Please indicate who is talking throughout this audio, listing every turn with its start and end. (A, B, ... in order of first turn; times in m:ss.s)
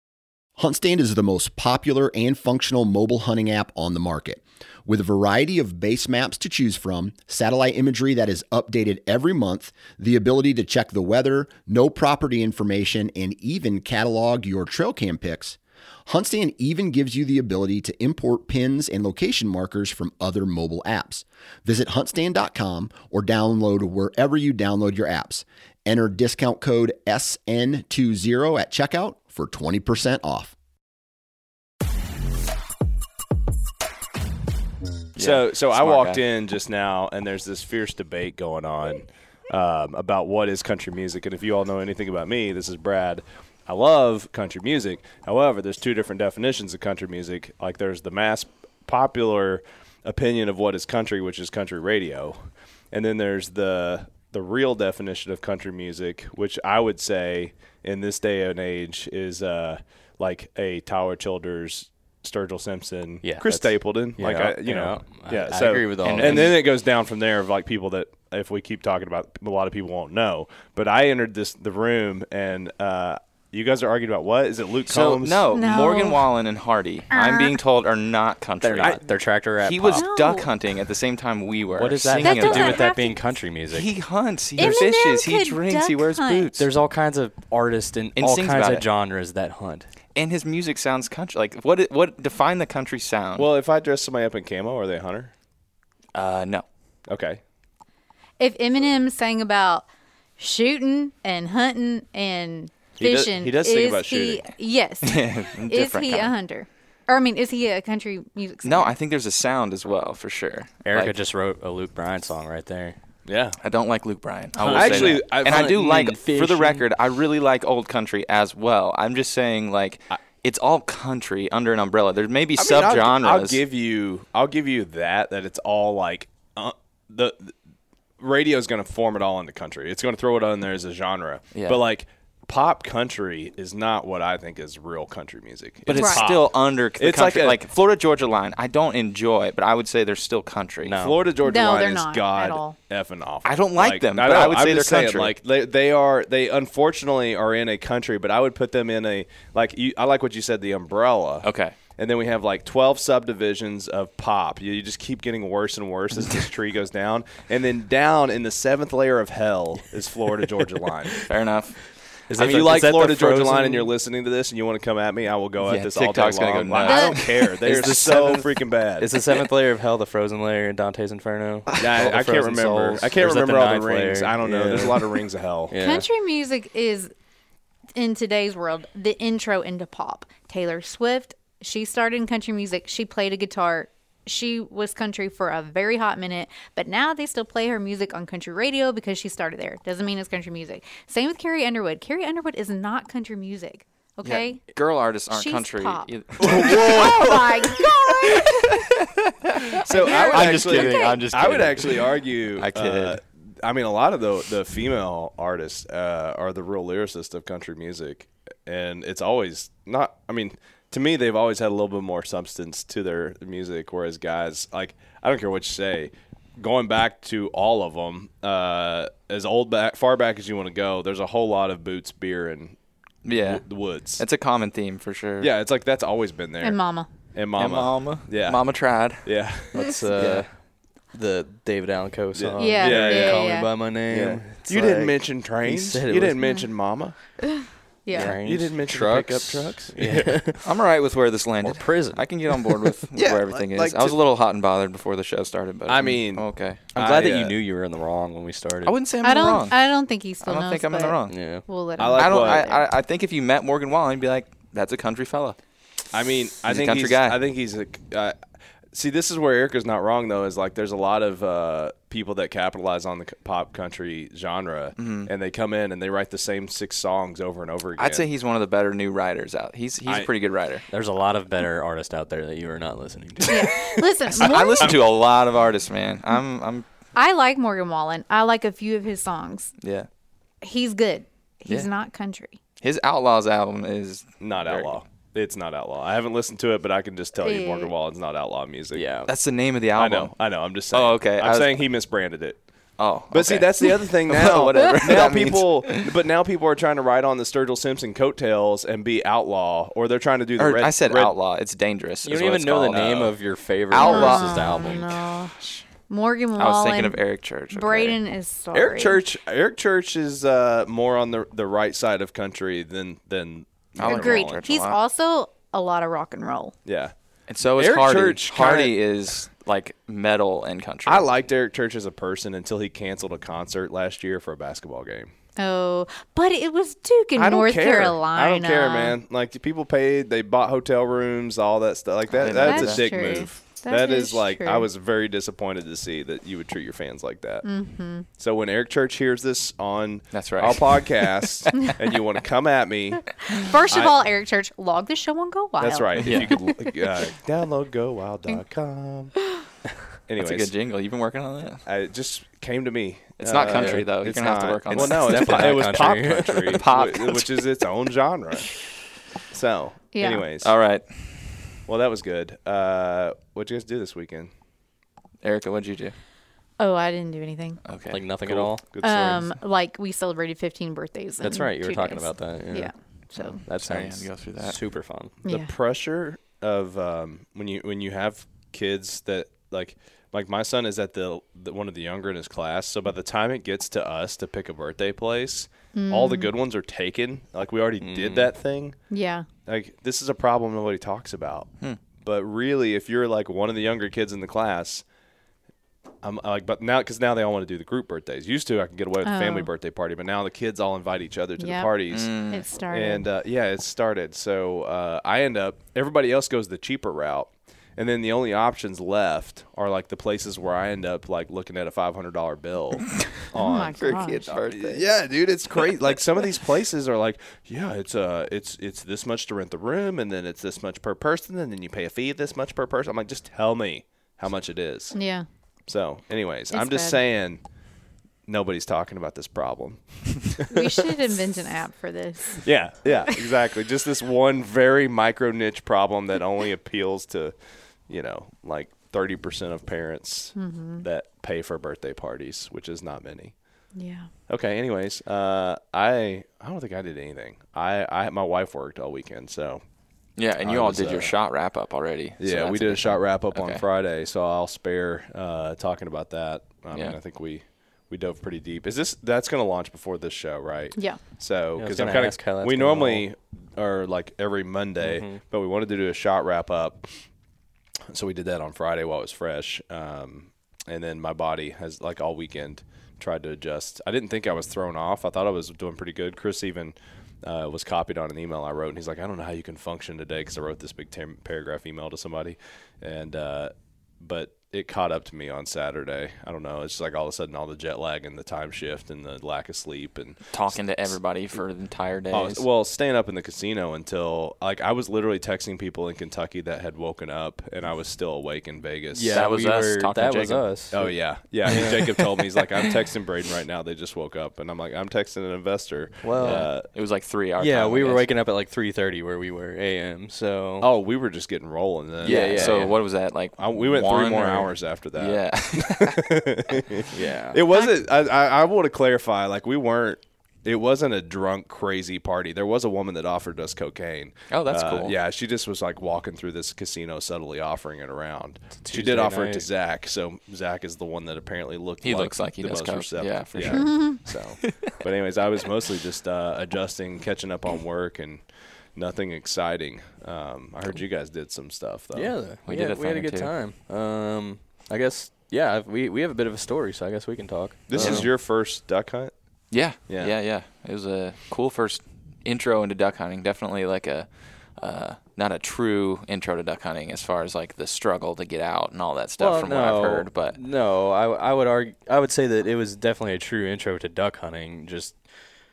0:00.6-0:30.5 A
0:35.2-0:36.2 B
0:35.2-1:15.7 C
1:03.2-1:06.6 D
1:06.0-1:06.6 B
1:14.9-1:19.0 B
1:15.5-1:16.3 E
1:17.1-1:17.6 E
1:18.6-1:20.1 D
1:19.6-1:22.9 B
1:19.9-1:20.5 E
1:21.8-1:23.9 D
1:22.2-1:23.3 E
1:23.7-1:26.7 B
1:24.6-1:26.5 E
1:26.6-1:29.9 D
1:28.2-1:28.9 B
1:30.2-1:33.5 B
1:33.4-1:35.3 C
1:36.2-1:36.6 B
1:37.1-1:37.4 C
1:38.4-1:39.9 E
1:40.4-1:48.9 E
1:43.0-1:44.5 C
1:45.0-1:46.3 B
1:48.6-1:51.1 B
1:50.8-1:53.0 D
1:53.3-1:53.6 C
1:53.6-2:03.6 B
1:54.6-1:56.8 D
1:54.7-1:55.8 C
2:02.6-2:07.6 C
2:08.2-2:17.6 C
2:11.5-2:11.8 B
2:15.9-2:21.0 B
2:15.9-2:16.3 E
2:20.8-2:21.2 D
2:21.0-2:41.2 C
2:21.4-2:22.8 E
2:23.4-2:25.3 B
2:31.4-2:31.8 B
2:41.3-2:42.7 B
2:42.3-2:43.9 D
2:42.4-2:49.1 C
2:45.6-2:47.6 B
2:46.8-2:47.2 E
2:47.6-2:56.1 D
2:51.7-2:55.8 C
2:55.8-2:57.1 E
2:58.0-3:14.8 E
3:14.2-3:23.2 B
3:15.3-3:18.6 E
3:16.4-3:17.7 C
3:19.8-3:21.2 E
3:19.8-3:42.8 C
3:43.2-3:45.5 B
3:43.4-3:44.2 C
3:45.4-3:50.3 C
3:46.6-3:47.1 E
3:47.6-3:50.4 B
3:49.7-3:56.6 D
3:52.4-3:53.6 C
3:52.6-3:53.7 E
3:54.1-3:57.4 C
3:56.4-3:56.7 E
3:58.0-3:58.4 E
3:58.1-4:00.7 D
3:58.2-4:00.3 C
4:00.6-4:06.9 B
4:01.6-4:02.9 D
4:03.2-4:04.2 C
4:05.9-4:07.6 C
4:06.9-4:09.0 D
4:08.9-4:09.8 B
4:09.2-4:12.9 E
4:10.4-4:11.4 B
4:11.3-4:11.7 D
4:12.0-4:12.7 C
4:12.2-4:15.6 B
4:16.1-4:18.4 C
4:16.6-4:17.4 B
4:18.9-4:28.3 C
4:25.0-4:25.3 B
4:28.0-4:30.9 B
4:30.9-4:33.9 D
4:33.5-4:35.0 E
4:34.3-4:36.9 B
4:37.2-4:39.8 E
4:39.8-4:40.1 B
4:40.6-4:42.6 E
4:42.8-4:45.0 B
4:44.4-4:49.1 C
4:47.4-4:47.9 E
4:48.9-4:49.3 D
4:49.3-4:51.9 B
4:50.0-4:52.6 C
4:53.0-4:56.0 B
4:53.3-5:01.3 C
5:00.6-5:05.0 B
5:02.2-5:05.2 D
5:04.0-5:05.6 E
5:05.6-5:05.8 B
5:06.1-5:09.2 E
5:06.6-5:08.2 B
5:08.7-5:14.6 C
5:14.0-5:15.0 B
5:14.0-5:16.8 E
5:16.8-5:17.1 C
5:17.5-5:21.3 B
5:17.8-5:18.9 C
5:21.1-5:25.3 C
5:25.6-5:29.2 E
5:27.4-5:44.2 C
5:32.4-5:33.5 B
5:32.6-5:34.9 E
5:37.6-5:38.3 E
5:40.3-5:41.9 B
5:43.5-5:47.0 E
5:45.8-5:49.5 C
5:46.2-5:46.6 B
5:50.3-5:50.7 C
5:50.4-5:51.8 B
5:51.8-5:59.0 C
5:53.4-5:56.1 B
5:53.7-5:54.1 D
5:54.9-5:56.9 D
5:56.7-5:57.6 B
5:59.5-6:00.7 C
6:00.1-6:00.4 E
6:00.6-6:01.8 B
6:01.9-6:04.5 C
6:05.4-6:06.2 B
6:06.8-6:07.8 E
6:07.8-6:08.2 B
6:08.1-6:08.9 D
6:08.4-6:09.6 C
6:09.0-6:13.6 E
6:11.4-6:15.4 D
6:13.4-6:14.8 B
6:15.4-6:29.0 C
6:15.4-6:15.7 E
6:25.9-6:26.5 E
6:28.0-6:28.5 D
6:29.1-6:29.5 E
6:29.7-6:35.0 C
6:36.2-7:05.3 C
6:39.2-6:39.7 E
6:41.6-6:43.3 E
6:42.1-6:42.7 B
6:53.5-6:54.6 E
6:54.0-6:55.1 B
7:05.1-7:05.5 E
7:05.9-7:07.6 C
7:06.7-7:07.2 E
7:08.5-7:10.9 C
7:10.7-7:12.9 E
7:12.6-7:23.8 C
7:20.6-7:21.0 E
7:24.0-7:24.3 E
7:24.5-7:29.8 C
7:30.4-7:33.8 B
7:30.6-7:31.4 C
7:32.4-7:47.2 C
7:36.9-7:37.2 B
7:41.0-7:41.2 E
7:41.8-7:43.3 D
7:45.0-7:45.4 D
7:48.1-8:11.6 C
8:10.5-8:12.7 B
8:12.3-8:19.4 C
8:19.1-8:22.3 D
8:19.3-8:20.8 B
8:20.9-8:26.9 C
8:21.6-8:22.1 B
8:26.2-8:26.7 D
8:26.4-8:28.3 B
8:27.6-8:30.9 D
8:30.8-8:32.9 C
8:32.2-8:33.0 D
8:32.2-8:36.2 B
8:33.6-9:02.4 C
8:37.1-8:37.6 D
8:44.5-8:45.2 B
8:48.8-8:49.7 D
8:52.0-8:54.9 B
8:53.7-8:54.2 E
9:02.1-9:08.3 D
9:02.6-9:03.5 B
9:07.9-9:10.3 C
9:08.0-9:08.3 B
9:09.7-9:20.6 B
9:19.4-9:25.2 D